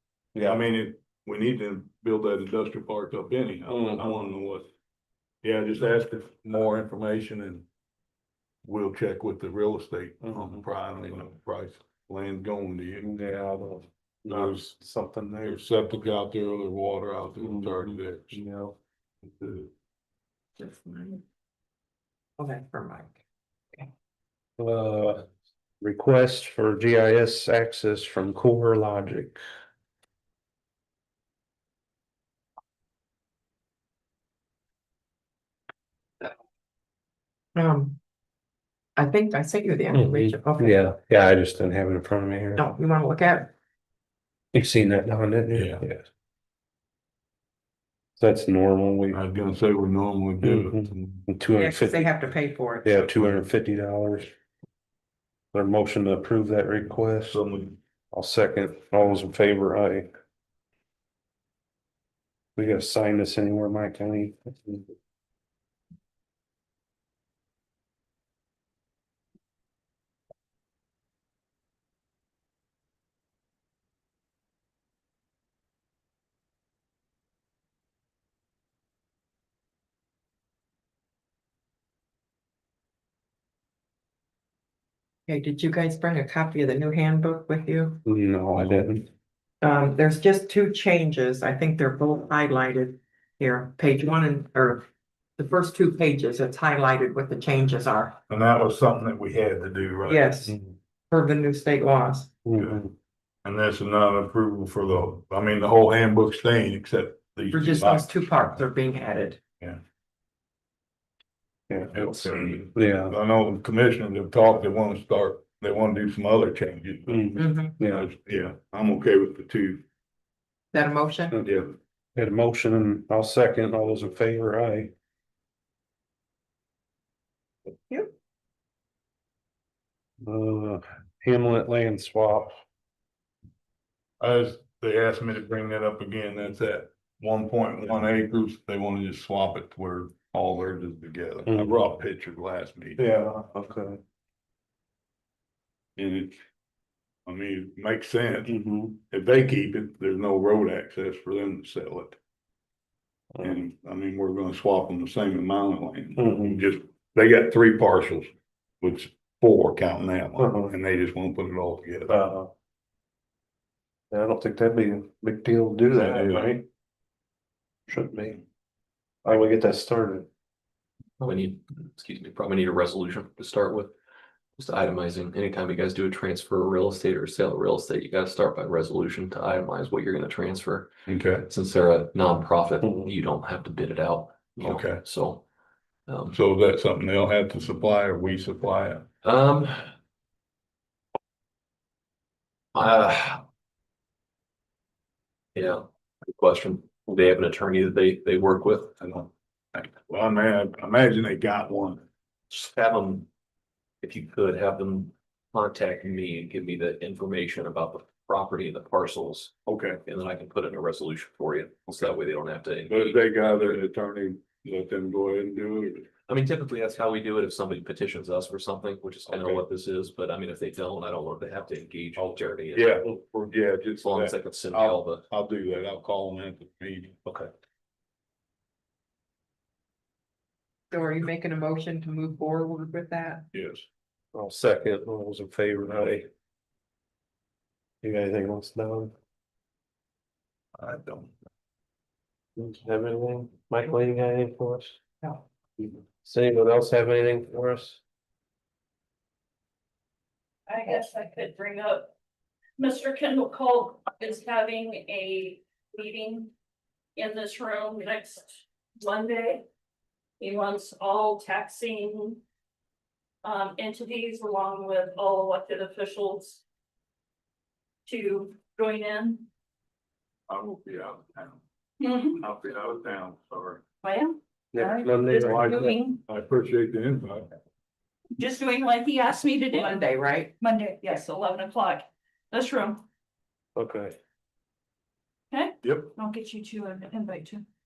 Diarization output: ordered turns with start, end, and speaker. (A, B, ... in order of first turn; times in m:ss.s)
0:00.3-0:00.6 A
0:00.4-0:04.7 B
0:03.7-0:04.2 A
0:05.4-0:07.6 B
0:08.6-0:13.1 B
0:10.2-0:11.2 A
0:13.0-0:15.6 A
0:14.3-0:14.7 B
0:15.4-0:18.4 B
0:17.4-0:18.8 A
0:19.4-0:19.7 B
0:20.6-0:21.2 C
0:22.4-0:23.2 C
0:24.6-0:25.3 A
0:25.8-0:29.4 A
0:37.5-0:38.0 C
0:39.0-0:40.8 C
0:39.9-0:42.6 A
0:42.6-0:43.5 C
0:44.5-0:46.1 A
0:45.5-0:45.8 B
0:48.2-0:49.2 A
0:49.1-0:51.2 B
0:50.4-0:52.1 A
0:51.6-0:53.0 C
0:52.8-0:54.3 A
0:53.0-0:53.4 B
0:55.5-0:57.4 A
0:57.3-0:57.8 B
0:58.1-1:00.1 A
1:02.6-1:04.9 A
1:25.3-1:28.0 C
1:28.0-1:29.0 A
1:29.6-1:34.8 C
1:35.4-1:38.2 C
1:38.3-1:40.3 B
1:40.1-1:40.6 C
1:40.5-1:40.7 A
1:41.1-1:42.3 C
1:42.4-1:42.9 A
1:43.4-1:48.6 B
1:47.5-1:49.4 C
1:51.7-1:52.1 A
1:51.9-1:57.4 B
1:52.0-1:52.6 D
1:52.7-1:53.2 A
1:57.1-1:58.1 A
1:57.4-1:57.8 C
1:57.9-1:59.8 B
2:00.7-2:01.4 C
2:01.4-2:01.7 B
2:02.1-2:04.9 A
2:10.2-2:12.6 A
2:14.2-2:23.0 B
2:21.4-2:21.8 A
2:23.0-2:24.0 A
2:26.0-2:26.4 B
2:27.2-2:28.6 B
2:28.5-2:29.0 A
2:29.1-2:32.2 B
2:33.4-2:33.6 A
2:33.4-2:38.3 B
2:36.2-2:36.6 A
2:38.8-2:42.2 B
2:40.4-2:40.7 A
2:42.1-2:42.5 A
2:44.1-2:46.6 A
2:45.9-2:46.6 B
2:47.9-2:48.4 A
2:49.2-2:50.3 A
2:51.2-2:53.9 D
2:54.6-3:00.9 D
3:01.1-3:01.4 B
3:01.4-3:05.4 D
3:04.6-3:05.0 B
3:06.1-3:06.4 D
3:06.3-3:09.0 B
3:09.2-3:09.9 D
3:12.7-3:13.4 D
3:15.5-3:19.0 D
3:19.0-3:22.0 B
3:22.5-3:23.3 D
3:24.0-3:29.5 D
3:29.7-3:30.0 B
3:30.0-3:33.8 D
3:32.9-3:36.1 B
3:36.3-3:43.0 D
3:39.3-3:39.6 B
3:42.2-3:47.2 B
3:44.0-3:45.2 D
3:50.9-3:53.5 C
3:53.5-3:53.8 B
3:54.3-3:56.3 A
3:58.0-3:59.1 A
4:00.8-4:01.3 B
4:02.6-4:05.0 A
4:06.2-4:08.0 A
4:10.7-4:12.1 E
4:12.8-4:16.5 E
4:17.2-4:19.6 E
4:20.4-4:22.4 E
4:23.4-4:26.6 E
4:28.0-4:29.4 E
4:30.5-4:31.6 B
4:32.0-4:32.4 E
4:32.4-4:33.8 B
4:34.0-4:36.2 E
4:34.7-4:35.9 A
4:35.3-4:37.5 B
4:35.6-4:36.0 C
4:38.4-4:43.0 E
4:39.7-4:40.5 C
4:43.8-4:44.2 A
4:45.5-4:47.6 E
4:45.8-4:46.1 B